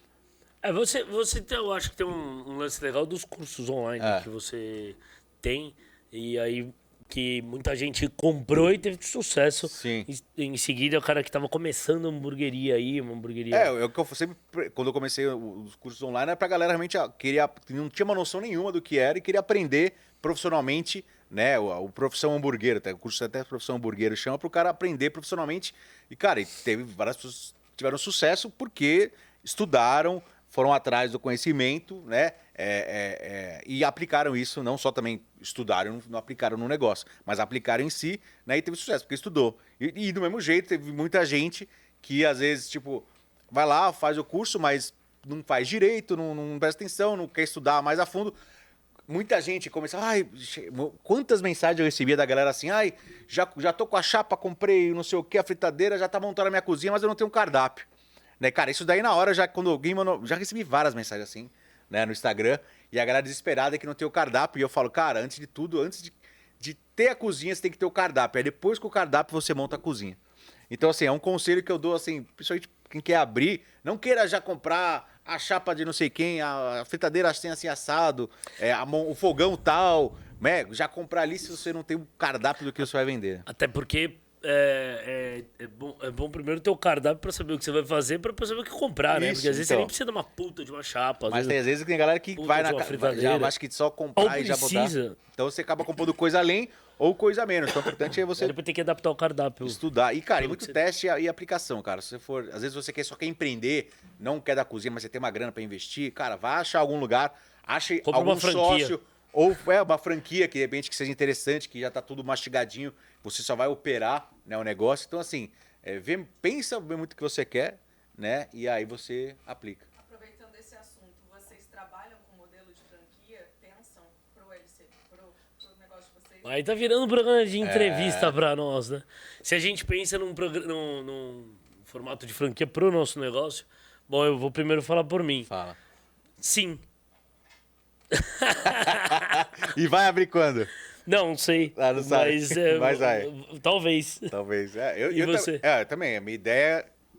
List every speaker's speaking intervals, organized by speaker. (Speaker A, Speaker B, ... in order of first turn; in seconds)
Speaker A: 0.6-13.7, 83.5-91.6, 92.4-93.5, 94.2-95.2, 98.4-99.8, 100.4-100.8, 108.0-109.0, 126.5-135.5, 136.4-136.8, 138.1-139.5, 141.1-144.3, 145.1-145.6
Speaker B: 4.0-4.3, 9.7-10.1, 13.5-48.4, 49.1-57.9, 58.4-70.2, 70.7-83.5, 89.1-89.9, 91.3-98.5, 99.6-119.9, 127.6-128.4, 135.5-135.8, 138.7-140.7, 141.8-143.3, 144.3-146.9
Speaker C: 120.0-126.5